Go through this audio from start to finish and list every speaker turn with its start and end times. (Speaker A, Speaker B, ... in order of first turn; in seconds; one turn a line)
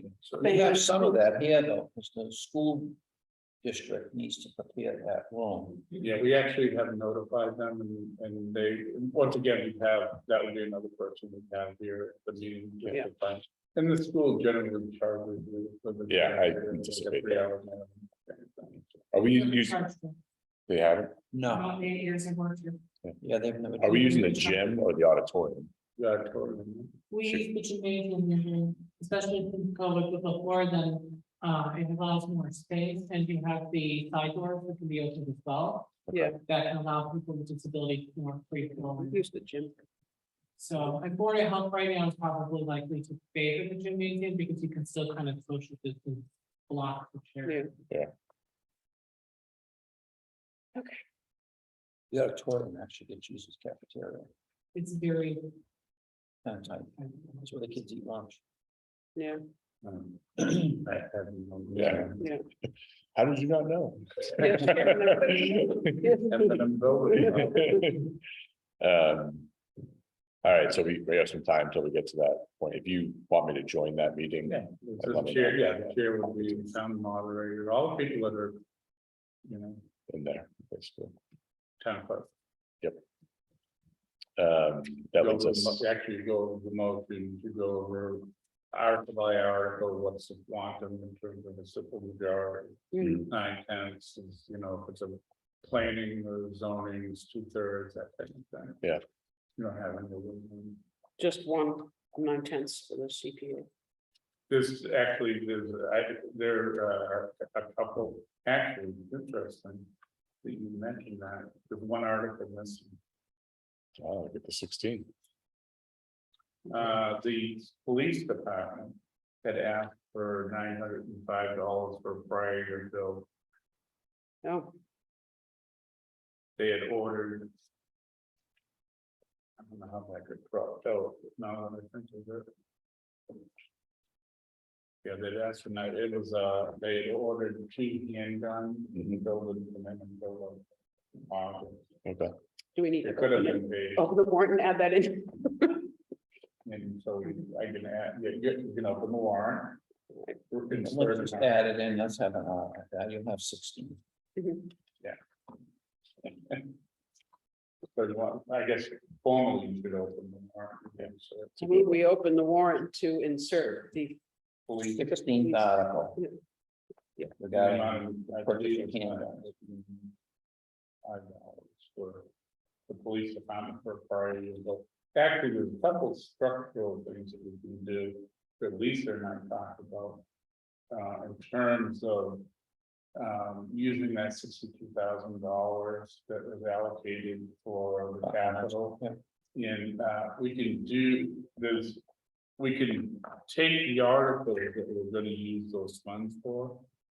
Speaker A: 0.3-3.0
Speaker B: 0.4-1.2
Speaker A: 3.6-5.8
Speaker C: 5.9-19.1
Speaker D: 16.1-17.5
Speaker D: 19.1-19.8
Speaker E: 19.2-20.2
Speaker D: 20.7-21.2
Speaker A: 21.3-21.7
Speaker E: 21.5-22.8
Speaker A: 23.2-24.5
Speaker D: 23.8-25.7
Speaker E: 23.9-24.7
Speaker C: 26.0-27.0
Speaker E: 27.1-39.2
Speaker B: 36.1-36.4
Speaker B: 38.8-39.8
Speaker E: 40.6-47.7
Speaker B: 47.5-47.7
Speaker A: 52.1-54.3
Speaker E: 54.7-55.5
Speaker A: 56.5-58.4
Speaker B: 59.2-59.4
Speaker C: 59.8-62.4
Speaker D: 61.8-62.1
Speaker D: 63.1-65.9
Speaker B: 64.4-67.7
Speaker C: 64.4-64.8
Speaker C: 66.3-67.9
Speaker D: 67.2-68.2
Speaker D: 68.8-69.5
Speaker D: 70.4-76.6
Speaker C: 74.5-78.6
Speaker C: 79.5-79.8
Speaker D: 80.1-81.2
Speaker C: 81.8-82.3
Speaker D: 84.4-85.8
Speaker C: 85.2-98.8
Speaker B: 92.9-93.2
Speaker D: 93.0-93.3
Speaker C: 99.6-100.8
Speaker B: 101.2-103.7
Speaker C: 104.5-109.9
Speaker C: 110.4-113.0
Speaker D: 114.0-115.1
Speaker C: 116.7-123.3
Speaker B: 124.4-124.7
Speaker C: 126.6-127.5
Speaker C: 129.6-132.5
Speaker C: 135.0-140.6
Speaker D: 138.9-139.2
Speaker C: 141.2-141.9
Speaker D: 142.1-142.3
Speaker B: 142.8-145.9
Speaker C: 143.0-144.1
Speaker C: 146.7-149.8
Speaker C: 150.5-151.6
Speaker A: 150.7-154.0
Speaker B: 154.4-154.7
Speaker C: 156.2-156.8
Speaker C: 157.9-162.0
Speaker B: 161.6-164.2
Speaker C: 164.7-165.1
Speaker A: 164.8-166.2
Speaker B: 165.3-166.3
Speaker A: 167.4-169.5
Speaker C: 167.5-170.2
Speaker C: 171.0-172.3
Speaker C: 172.9-180.2
Speaker C: 180.9-182.5
Speaker C: 183.2-189.0
Speaker A: 188.2-189.2
Speaker C: 189.5-192.0
Speaker C: 192.6-196.9